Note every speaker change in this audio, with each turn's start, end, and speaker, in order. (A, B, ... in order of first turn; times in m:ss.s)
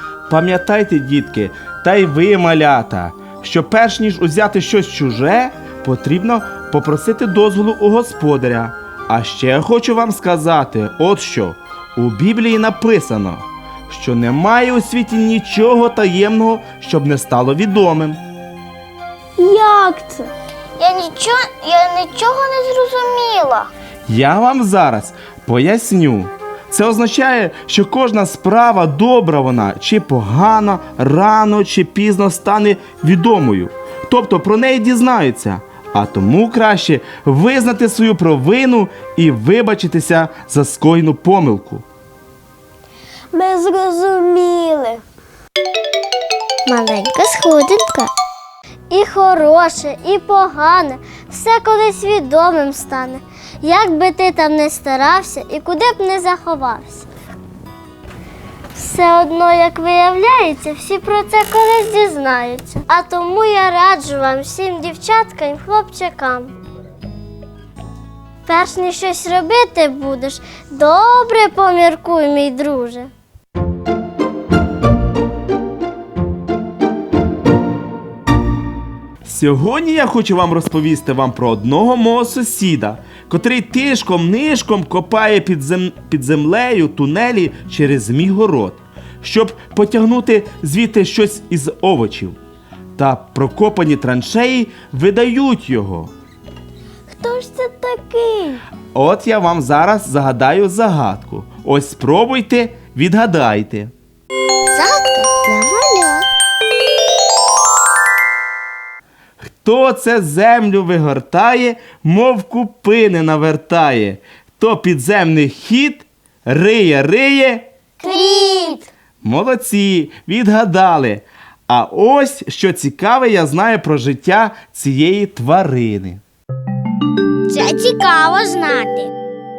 0:00.3-0:18.2 A
0:19.4-0:20.3 B
0:20.8-0:23.7 C
0:24.1-0:41.8 A
0:43.3-0:45.0 B
0:46.7-0:48.1 D
0:48.9-0:57.1 D
0:58.8-1:06.5 D
1:08.4-1:13.1 D
1:19.2-1:32.4 A
1:33.0-1:36.1 A
1:37.1-1:38.6 B
1:38.9-1:43.9 A
1:44.7-1:46.2 D
1:49.6-1:57.7 A
1:58.0-1:58.9 C
1:59.2-2:06.2 A
2:07.5-2:09.1 D